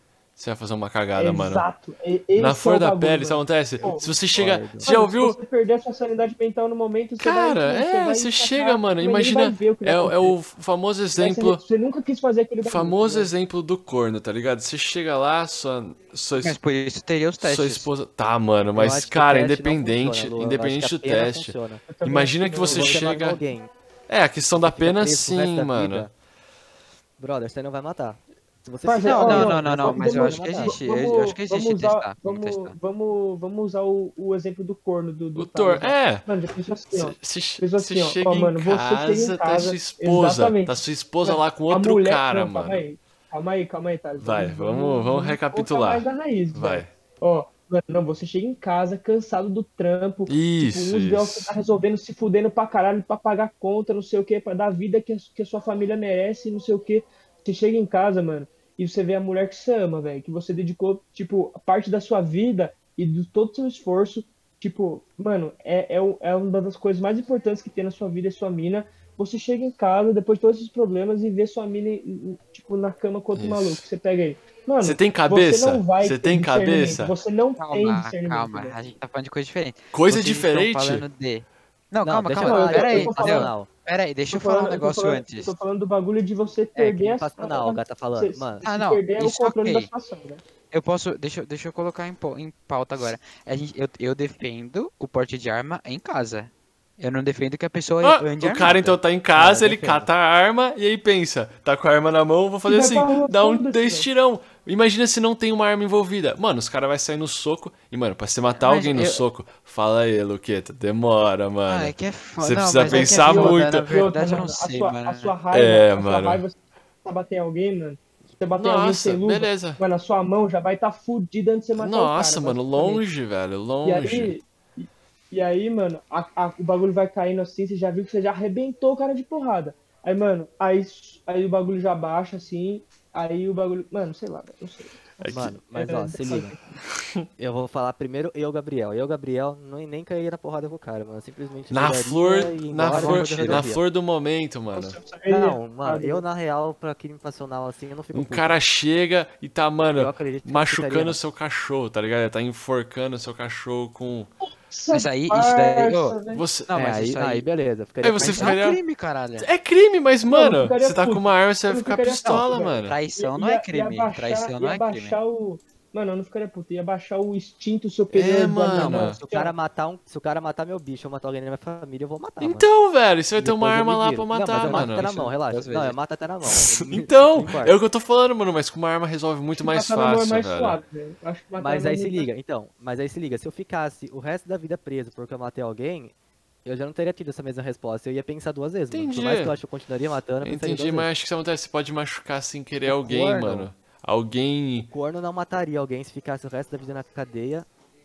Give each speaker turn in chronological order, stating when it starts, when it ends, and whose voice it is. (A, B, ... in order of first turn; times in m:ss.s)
0:00.4-0:01.7 A
0:01.2-0:04.2 B
0:02.4-0:05.4 A
0:03.8-0:05.0 C
0:04.8-0:10.4 B
0:07.2-0:11.6 A
0:11.2-0:13.3 B
0:12.6-0:16.6 A
0:16.4-0:17.9 D
0:17.4-0:23.4 A
0:18.7-0:21.8 C
0:21.9-0:23.2 B
0:22.7-0:23.7 C
0:24.1-0:26.1 A
0:24.6-0:26.1 C
0:27.2-0:30.8 C
0:28.8-1:18.8 B
0:29.0-0:32.8 D
0:35.4-0:36.3 A
0:36.9-0:42.8 A
0:44.2-0:46.9 A
0:50.3-0:51.5 A
1:13.3-1:13.9 A
1:14.8-1:17.2 A
1:17.6-1:25.6 D
1:19.9-1:21.0 A
1:22.0-1:23.7 C
1:22.4-1:23.5 B
1:24.3-1:30.4 B
1:26.8-1:28.6 C
1:28.6-1:29.9 D
1:30.7-1:39.0 D
1:38.0-1:53.9 A
1:39.3-1:40.1 C
1:42.7-1:44.1 B
1:48.6-1:49.2 D
1:51.7-1:55.4 D
1:52.8-2:03.0 B
1:55.5-1:56.4 A
1:58.6-1:59.8 A
2:01.8-2:04.4 A
2:03.8-2:16.6 B
2:15.2-2:15.6 A
2:15.3-2:16.6 C
2:17.4-2:23.8 C
2:21.7-2:25.0 A
2:22.9-2:23.7 B
2:24.7-2:26.2 B
2:25.3-2:28.6 C
2:28.1-2:34.3 A
2:30.0-2:31.2 C
2:34.6-2:36.5 B
2:34.9-2:36.2 D
2:36.3-2:36.7 A
2:36.7-2:37.5 D
2:36.7-2:38.6 C
2:38.0-2:38.8 A
2:38.2-2:39.5 D
2:39.4-2:43.0 A
2:40.3-2:49.5 B
2:42.9-2:45.2 D
2:48.1-2:49.2 A
2:48.7-2:52.7 C
2:52.4-2:55.1 A
2:53.4-2:57.8 C
2:54.6-2:56.0 D
2:56.4-3:00.8 A
2:59.6-3:02.3 B
3:01.6-3:06.1 C
3:06.6-3:11.1 C
3:08.9-3:09.6 A
3:10.4-3:14.9 A
3:12.9-3:13.7 C
3:14.9-3:17.7 C